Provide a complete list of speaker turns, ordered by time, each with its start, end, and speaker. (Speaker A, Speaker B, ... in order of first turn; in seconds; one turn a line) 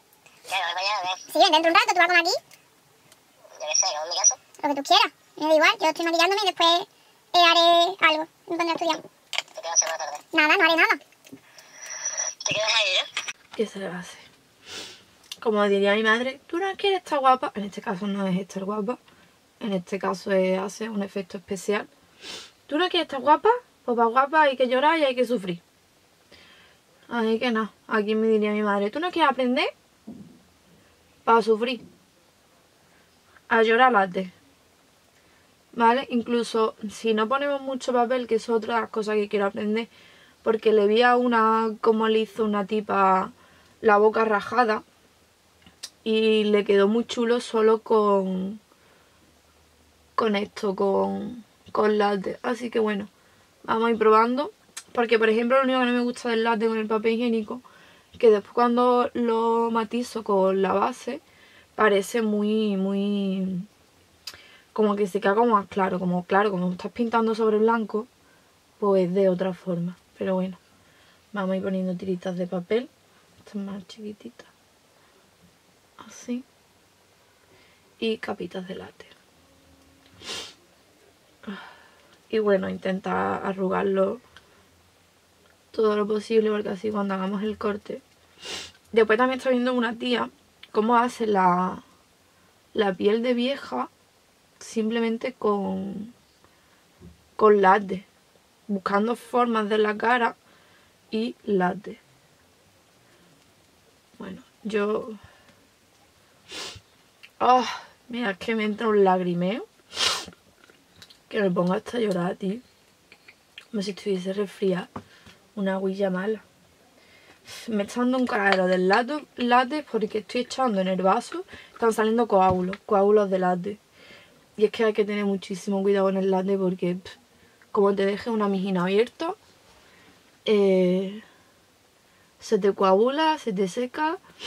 Speaker A: 0.5-1.3
Speaker B: 1.3-2.4
Speaker A: 3.5-4.4
Speaker B: 4.6-9.1
Speaker A: 9.6-10.2
Speaker B: 10.3-11.0
Speaker A: 12.4-13.1
Speaker C: 13.6-14.3
Speaker C: 15.4-19.0
Speaker C: 19.6-21.9
Speaker C: 22.7-25.6
Speaker C: 27.1-29.7
Speaker C: 31.2-31.8
Speaker C: 33.5-34.3
Speaker C: 35.7-39.9
Speaker C: 40.4-44.8
Speaker C: 46.0-48.6
Speaker C: 50.2-53.1
Speaker C: 53.6-57.6
Speaker C: 58.2-61.2
Speaker C: 61.8-63.7
Speaker C: 64.7-68.1
Speaker C: 68.8-70.6
Speaker C: 71.3-72.9
Speaker C: 73.4-74.5
Speaker C: 76.0-76.5
Speaker C: 78.0-79.1
Speaker C: 82.3-84.2
Speaker C: 85.7-88.0
Speaker C: 88.9-91.8
Speaker C: 92.7-93.9
Speaker C: 94.6-96.1
Speaker C: 97.4-98.1
Speaker C: 98.7-100.4
Speaker C: 101.1-102.0
Speaker C: 104.2-105.2
Speaker C: 107.4-110.2
Speaker C: 111.3-112.6
Speaker C: 113.7-114.9
Speaker C: 115.5-116.4
Speaker C: 117.5-123.8
Speaker C: 124.6-127.2
Speaker C: 127.7-129.4
Speaker C: 130.4-131.2
Speaker C: 132.4-134.2